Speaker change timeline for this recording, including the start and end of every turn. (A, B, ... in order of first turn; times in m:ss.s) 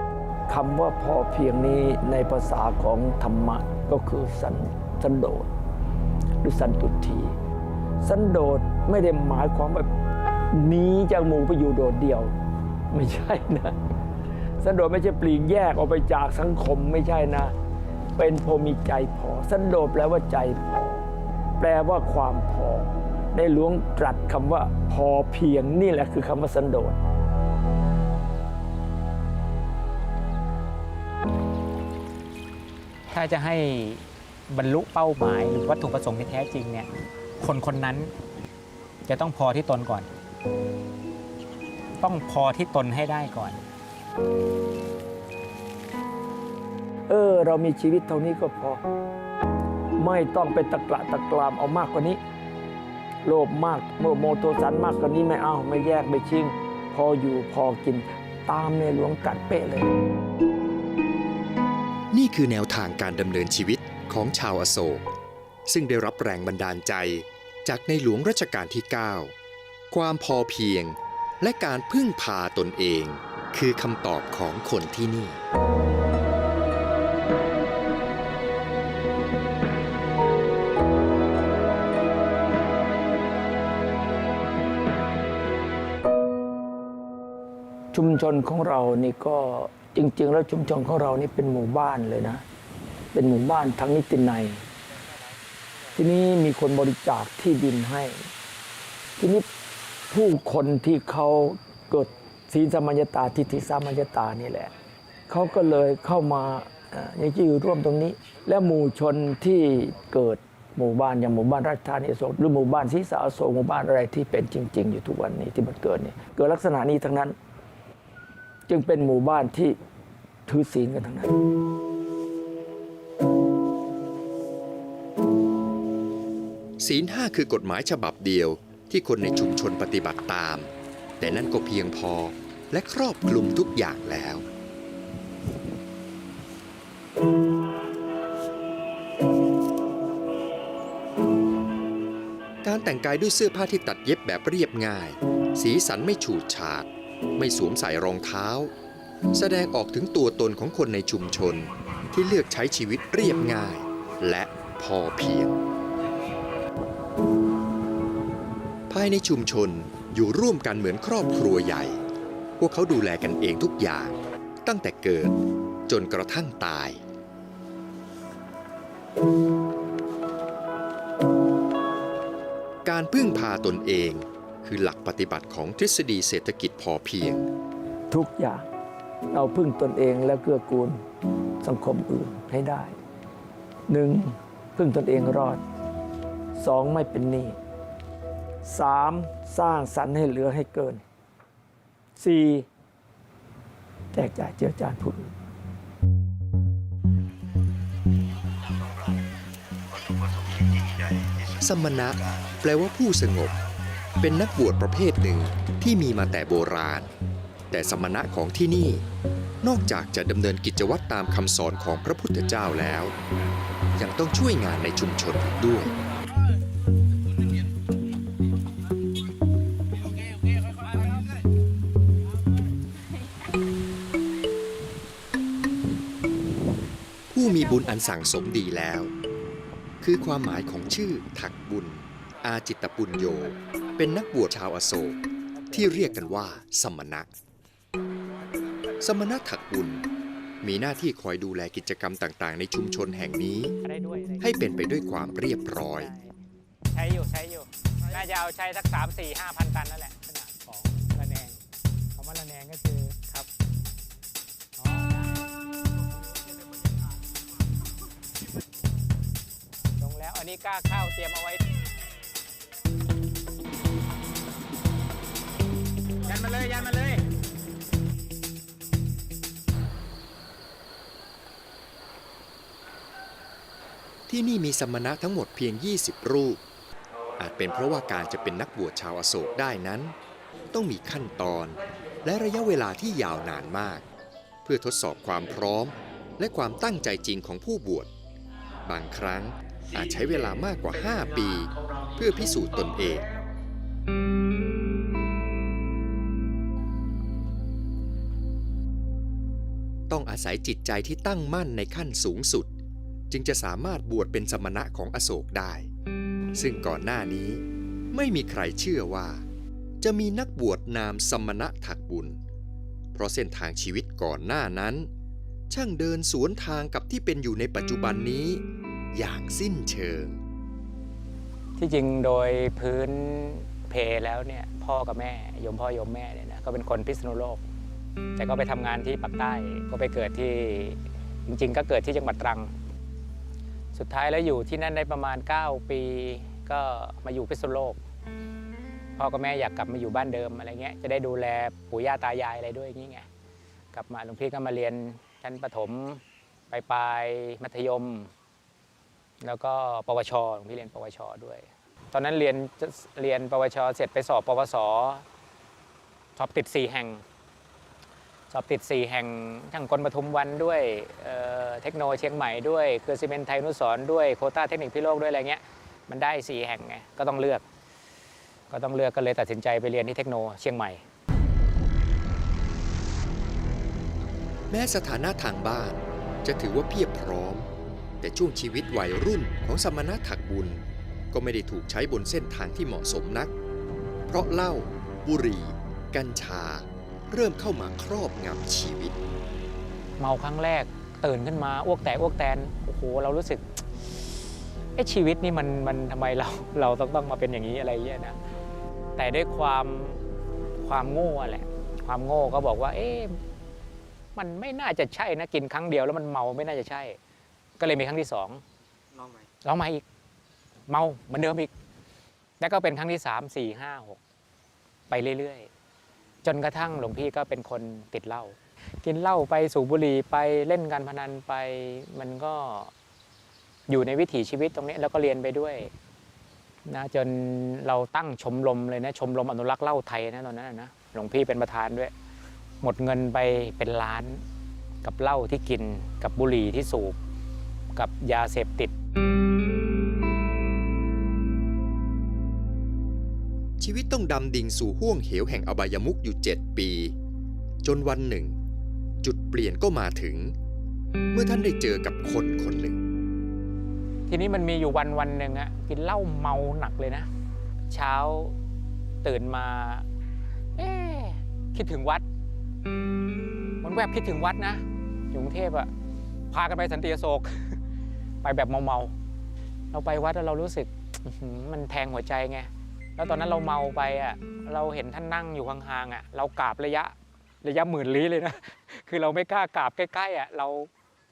0:00.5-0:05.5 A
0:06.4-0:07.4 A
0:08.0-0:09.9 A
0:10.5-0:12.3 A
0:12.9-0:13.8 A
0:14.6-0:17.5 A
0:18.2-0:21.1 A
0:21.6-0:27.0 A
0:33.1-0:36.9 B
0:37.4-0:38.1 B
0:39.1-0:40.1 B
0:42.0-0:43.6 B
0:47.1-0:48.8 A
0:50.0-0:52.2 A
0:53.2-0:59.9 A
1:02.1-1:05.1 C
1:05.7-1:09.3 C
1:09.9-1:15.4 C
1:27.9-1:32.4 A
1:33.1-1:34.6 A
1:35.9-1:38.3 A
1:39.2-1:39.5 A
1:40.1-1:44.7 A
1:45.3-1:57.4 A
1:58.7-1:59.8 A
2:00.5-2:01.4 A
2:06.8-2:14.5 C
2:22.6-2:28.7 C
2:29.3-2:35.6 C
2:38.9-2:42.0 C
2:42.6-2:45.4 C
2:45.9-2:47.0 C
2:52.8-2:57.5 C
2:58.1-2:58.7 A
2:59.3-3:01.0 A
3:01.6-3:03.0 A
3:03.9-3:05.6 A
3:06.6-3:07.6 A
3:08.6-3:11.0 A
3:12.2-3:12.7 A
3:14.1-3:15.3 A
3:21.2-3:23.6 C
3:24.2-3:27.1 C
3:27.7-3:29.0 C
3:29.6-3:33.2 C
3:34.0-3:36.0 C
3:47.3-3:49.1 C
3:50.0-3:55.2 C
3:55.5-3:56.6 B
3:55.7-3:57.3 C
3:59.0-4:00.0 C
4:00.6-4:03.8 C
4:03.8-4:04.6 B
4:04.4-4:06.1 C
4:05.8-4:06.3 B
4:06.9-4:11.6 B
4:12.2-4:13.5 B
4:14.8-4:15.5 B
4:20.0-4:21.6 B
4:26.2-4:27.3 B
4:34.3-4:36.6 C
4:37.4-4:40.2 C
4:40.7-4:44.1 C
4:44.6-4:48.1 C
4:48.8-4:53.3 C
5:00.1-5:02.7 C
5:03.3-5:05.9 C
5:06.6-5:09.4 C
5:10.0-5:12.4 C
5:13.1-5:15.1 C
5:15.7-5:20.4 C
5:21.8-5:27.6 B
5:28.4-5:32.7 B
5:34.0-5:38.0 B
5:39.2-5:43.3 B
5:43.9-5:48.3 B
5:49.4-5:55.2 B
5:56.4-5:57.2 B
5:58.5-6:07.6 B
6:08.7-6:11.0 B
6:14.7-6:17.7 C
6:18.2-6:23.5 C
6:24.3-6:29.2 C
6:30.2-6:38.4 B
6:39.2-6:40.2 B
6:40.8-6:43.4 B
6:44.4-6:47.2 B
6:47.8-6:48.6 B
6:49.6-6:50.0 B
6:50.9-6:51.7 B
6:52.6-6:54.2 B
6:55.1-6:55.7 B
6:56.4-7:02.9 B
7:03.9-7:05.9 B
7:06.9-7:12.1 B
7:12.8-7:14.4 B
7:15.0-7:17.2 B
7:18.0-7:18.9 B
7:23.8-7:27.1 C
7:27.8-7:28.6 C
7:29.2-7:30.6 C
7:31.3-7:33.0 C
7:34.3-7:37.3 B
7:37.9-7:38.6 B
7:39.2-7:40.1 B
7:40.8-7:42.2 B
7:43.8-7:45.9 B
7:46.5-7:47.8 B
7:48.4-7:49.1 B
7:49.9-8:00.9 B